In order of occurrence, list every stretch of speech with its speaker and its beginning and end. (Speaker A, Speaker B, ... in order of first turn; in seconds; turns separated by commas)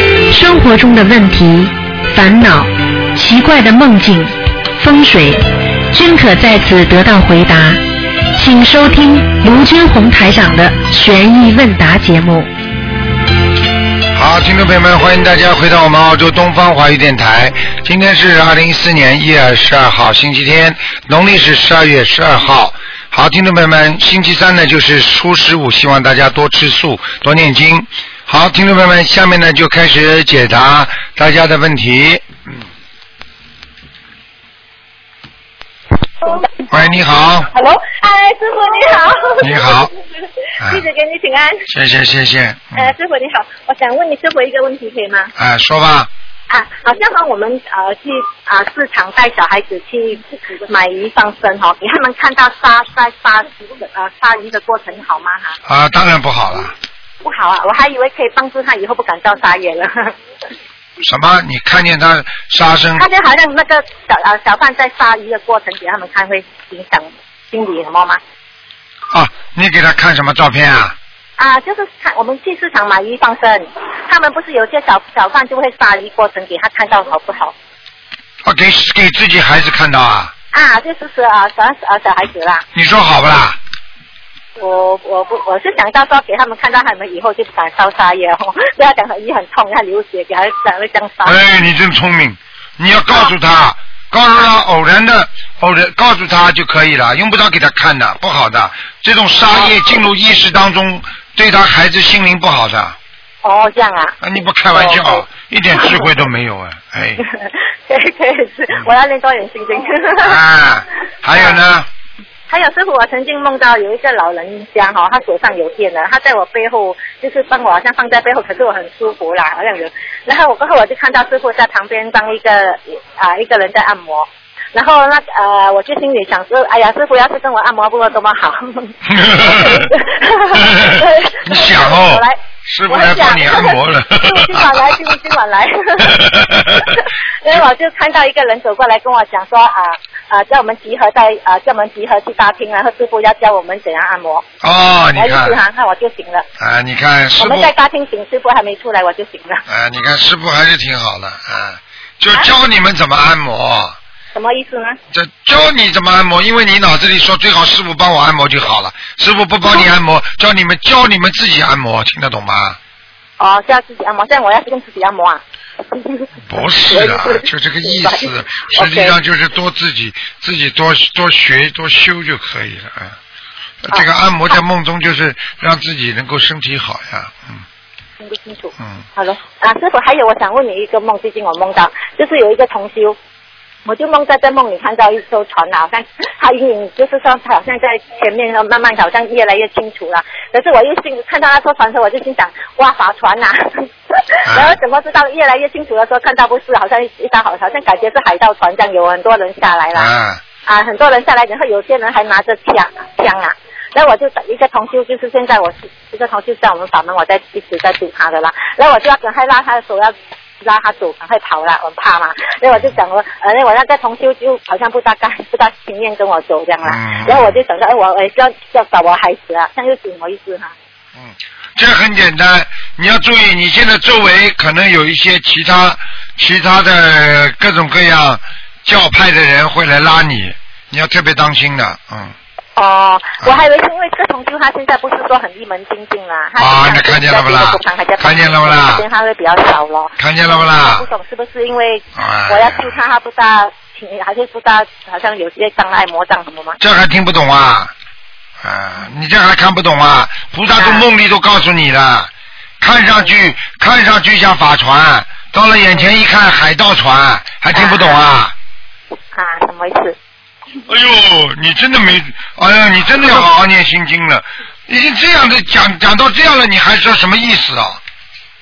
Speaker A: 0.3-7.8, Speaker A: 8.3-12.5, Speaker B: 14.1-32.6, Speaker B: 36.7-37.5, Speaker C: 37.5-41.6, Speaker B: 39.4-39.9, Speaker B: 41.7-42.9, Speaker C: 42.7-45.3, Speaker B: 45.4-46.1, Speaker C: 46.5-55.6, Speaker B: 55.6-56.7, Speaker C: 57.2-60.1, Speaker B: 61.0-63.0, Speaker C: 63.0-68.2, Speaker B: 69.1-70.9, Speaker C: 71.4-77.5, Speaker B: 78.4-80.3, Speaker C: 80.5-82.6, Speaker B: 82.7-83.6, Speaker C: 84.6-91.4, Speaker B: 91.2-103.0, Speaker C: 103.4-104.2, Speaker B: 104.2-107.2, Speaker C: 104.7-105.2, Speaker C: 105.7-106.1, Speaker C: 107.2-110.4, Speaker B: 110.2-111.9, Speaker C: 111.3-111.6, Speaker C: 112.5-132.4, Speaker B: 129.1-129.9, Speaker B: 130.5-135.2, Speaker C: 132.9-136.2, Speaker B: 136.0-137.0, Speaker C: 136.8-144.4, Speaker B: 144.6-145.6, Speaker C: 145.2-146.4, Speaker B: 146.6-147.7, Speaker C: 147.4-149.6, Speaker B: 149.7-154.0, Speaker C: 154.3-155.0, Speaker B: 155.1-162.8, Speaker C: 163.4-165.4, Speaker C: 165.9-166.2, Speaker B: 166.5-173.2, Speaker C: 166.9-169.1, Speaker B: 173.8-177.6, Speaker C: 178.2-183.2, Speaker C: 183.8-200.1, Speaker B: 194.4-194.8, Speaker B: 199.9-200.4, Speaker C: 200.6-220.7, Speaker B: 216.8-217.6, Speaker B: 221.2-232.3, Speaker C: 232.8-246.8, Speaker B: 236.6-239.0, Speaker B: 240.2-241.1, Speaker B: 242.2-242.9, Speaker B: 246.8-247.9, Speaker B: 248.6-258.5, Speaker C: 250.8-251.1, Speaker C: 257.7-258.2, Speaker C: 259.3-260.1, Speaker B: 260.9-268.0